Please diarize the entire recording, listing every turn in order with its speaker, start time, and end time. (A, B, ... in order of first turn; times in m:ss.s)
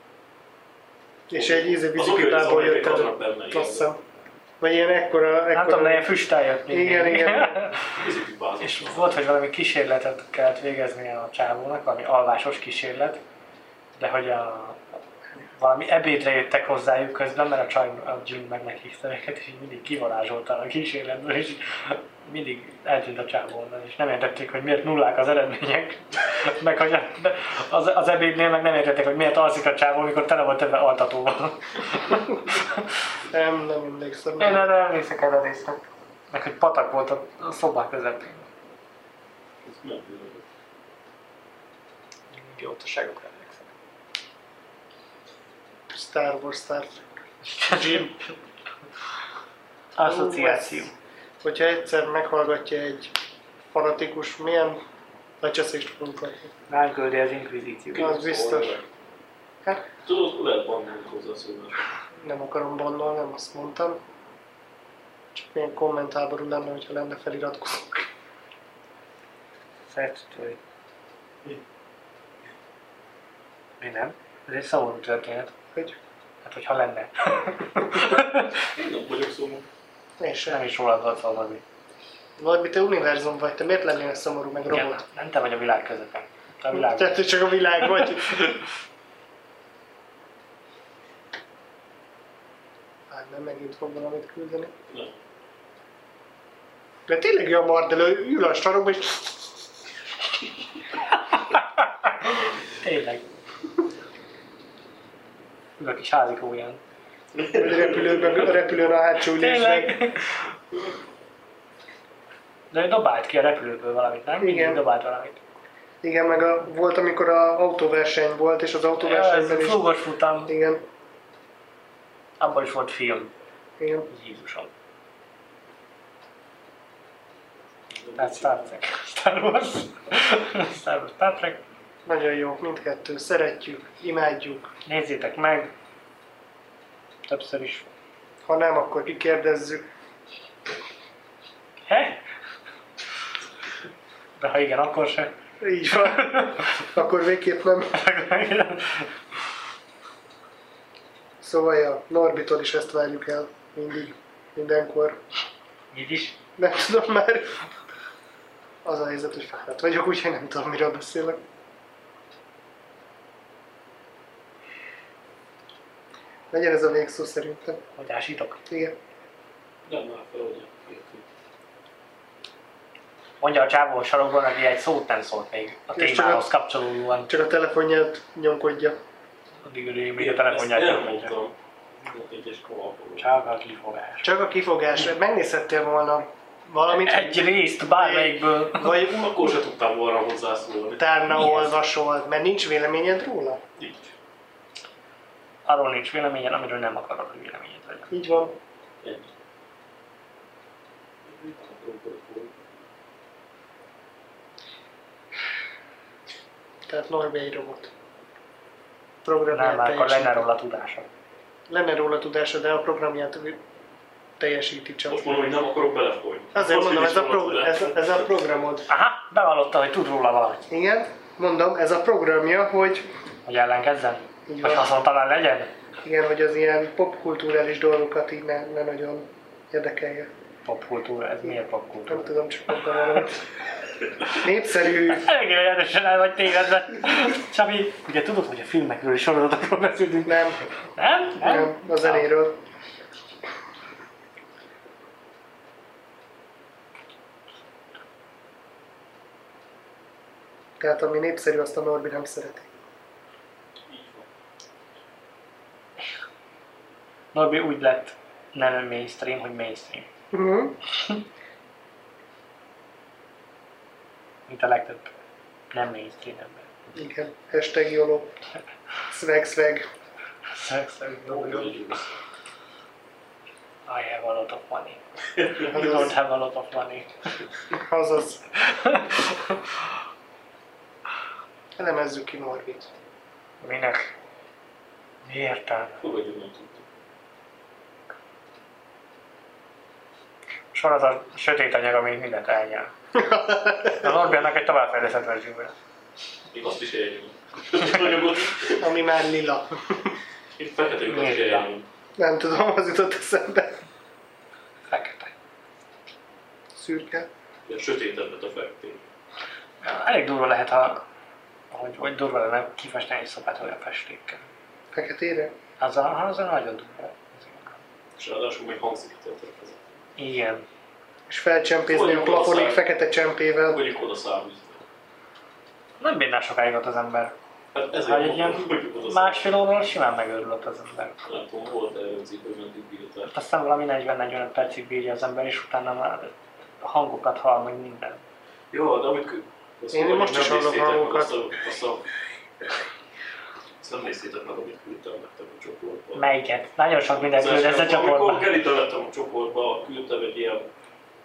0:01.3-0:04.0 A
0:01.3-0:03.9 B
0:04.6-0:06.2 A
0:05.5-0:08.0 C
0:06.7-0:07.7 A
0:07.9-0:09.1 B
0:08.6-0:13.2 C
0:14.0-0:15.0 C
0:15.5-0:32.8 C
0:33.3-0:34.7 A
0:34.4-0:35.8 C
0:36.3-0:38.5 C
0:39.6-0:40.4 B
0:42.3-0:43.7 C
0:45.9-0:47.0 A
0:47.6-0:48.0 C
0:47.6-0:48.2 A
0:50.0-0:50.9 C
0:50.0-0:50.9 A
0:51.4-0:53.2 A
0:53.7-0:54.8 A
0:55.4-0:56.5 A
0:56.7-0:58.1 C
0:58.0-0:58.8 B
0:58.0-0:58.8 A
1:00.1-1:01.8 B
1:02.2-1:04.0 A
1:05.4-1:08.1 A
1:09.9-1:10.6 C
1:13.8-1:15.5 C
1:16.4-1:18.6 C
1:18.6-1:19.7 B
1:20.2-1:20.6 A
1:20.5-1:21.6 C
1:22.4-1:25.0 A
1:24.7-1:28.5 C
1:26.7-1:28.6 A
1:33.1-1:34.7 A
1:37.1-1:39.7 A
1:41.5-1:43.2 C
1:45.8-1:46.8 C
1:47.5-1:50.0 A
1:49.3-1:50.3 C
1:52.7-1:55.4 C
1:54.4-1:54.8 A
1:56.0-1:59.9 A
1:59.0-2:00.5 C
2:00.5-2:00.8 A
2:02.4-2:03.3 C
2:03.8-2:04.1 A
2:04.1-2:04.7 C
2:08.0-2:08.6 B
2:08.2-2:11.6 C
2:12.1-2:14.7 A
2:14.9-2:15.7 C
2:17.3-2:17.9 C
2:18.4-2:19.9 A
2:21.9-2:22.2 C
2:24.4-2:25.4 C
2:25.6-2:27.9 A
2:26.1-2:26.7 C
2:27.9-2:29.1 C
2:31.4-2:35.2 A
2:35.9-2:36.4 C
2:36.6-2:37.6 A
2:38.8-2:41.4 A
2:46.5-2:47.8 A
2:48.0-2:48.6 C
2:48.7-2:49.0 A
2:49.9-2:51.2 B
2:53.4-2:57.3 C
2:56.0-2:56.5 A
2:57.3-2:59.0 A
2:59.6-3:01.3 C
3:00.2-3:03.3 B
3:03.2-3:04.3 C
3:04.2-3:08.4 A
3:06.9-3:09.1 C
3:08.8-3:11.1 B
3:11.0-3:13.6 A
3:11.3-3:11.7 C
3:13.8-3:14.1 B
3:15.7-3:18.1 C
3:18.1-3:18.6 A
3:19.0-3:19.3 B
3:21.3-3:22.5 B
3:26.9-3:27.9 A
3:29.2-3:30.5 A
3:29.5-3:31.1 C
3:31.7-3:33.6 A
3:34.4-3:35.4 A
3:35.1-3:38.4 B
3:36.5-3:38.9 A
3:38.9-3:40.7 C
3:40.7-3:43.1 A
3:43.5-3:45.7 C
3:44.5-3:44.9 A
3:46.0-3:50.3 A
3:50.7-3:52.3 C
3:52.1-3:53.5 A
3:54.3-3:55.3 A
3:55.0-4:02.3 C
4:00.2-4:00.6 A
4:01.4-4:02.6 A
4:10.8-4:12.7 A
4:13.9-4:14.3 B
4:17.3-4:20.1 C
4:20.3-4:20.8 A
4:24.5-4:25.1 C
4:25.7-4:26.7 C
4:26.9-4:28.4 A
4:29.1-4:29.9 A
4:30.5-4:31.8 C
4:31.2-4:32.2 B
4:33.9-4:37.3 C
4:35.7-4:36.1 A
4:37.7-4:38.4 A
4:38.6-4:39.7 C
4:41.8-4:42.9 A
4:43.6-4:44.1 C
4:45.2-4:46.0 C
4:46.0-4:46.8 B
4:50.7-4:52.9 C
4:53.1-4:54.2 A
4:53.8-4:55.7 C
4:56.5-4:58.9 B
4:58.8-5:00.2 A
5:00.6-5:01.8 B
5:01.1-5:01.7 C
5:02.2-5:03.8 A
5:04.9-5:05.3 C
5:06.8-5:07.3 A
5:07.7-5:09.0 B
5:09.8-5:11.1 C
5:11.7-5:14.4 C
5:14.9-5:15.5 A
5:15.8-5:17.8 C
5:18.2-5:20.0 B
5:20.2-5:20.7 C
5:21.3-5:23.8 A
5:21.9-5:22.8 B
5:23.7-5:24.8 B
5:26.0-5:27.4 C
5:27.7-5:29.5 B
5:28.0-5:31.2 C
5:31.2-5:33.3 B
5:33.3-5:38.2 C
5:38.7-5:42.1 B
5:39.9-5:41.4 A
5:43.8-5:46.2 B
5:46.2-5:48.5 C
5:47.2-5:50.7 B